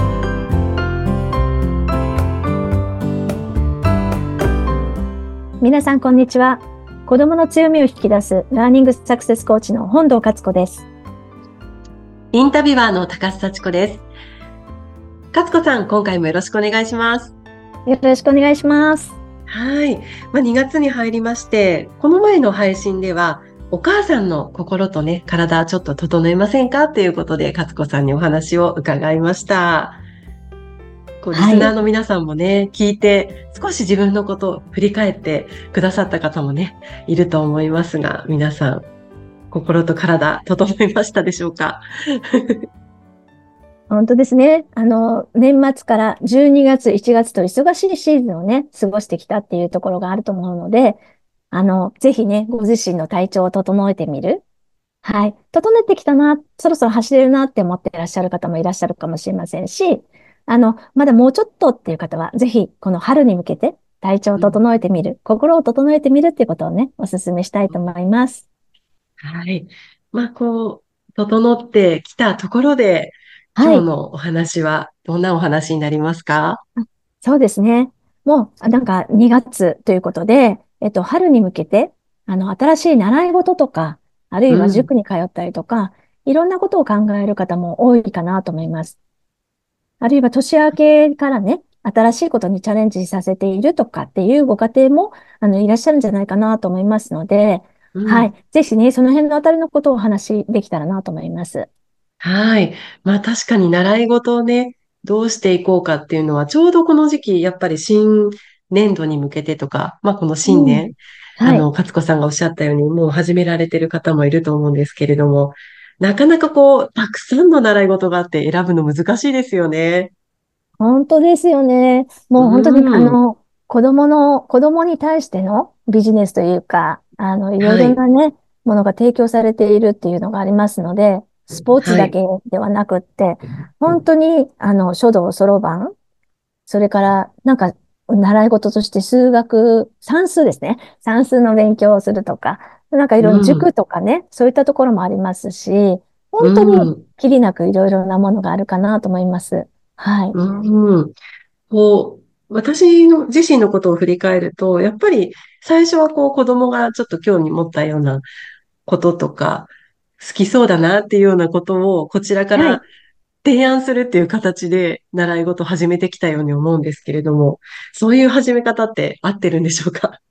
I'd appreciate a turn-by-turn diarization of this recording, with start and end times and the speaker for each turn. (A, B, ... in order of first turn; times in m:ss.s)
0:05.6-0:10.9 A
0:12.3-0:14.0 B
0:15.3-0:17.3 B
0:17.8-0:19.2 A
0:19.5-0:30.0 B
0:31.2-0:38.8 B
0:31.3-0:31.7 A
0:39.5-0:42.6 B
0:43.9-0:54.4 A
0:55.0-1:08.4 A
1:09.2-1:16.6 B
1:13.6-1:13.8 A
1:16.8-1:29.0 A
1:24.5-1:24.9 B
1:30.0-1:41.7 A
1:37.9-1:38.3 B
1:42.2-2:00.1 B
1:50.4-1:51.6 A
2:00.8-2:15.9 A
2:02.4-2:03.2 B
2:07.6-2:08.0 B
2:11.8-2:12.1 B
2:16.7-2:30.4 A
2:23.2-2:23.7 B
2:26.4-2:27.0 B
2:30.3-2:31.2 B
2:31.7-2:38.2 B
2:38.8-2:42.8 B
2:42.5-2:42.8 A
2:43.4-2:50.2 B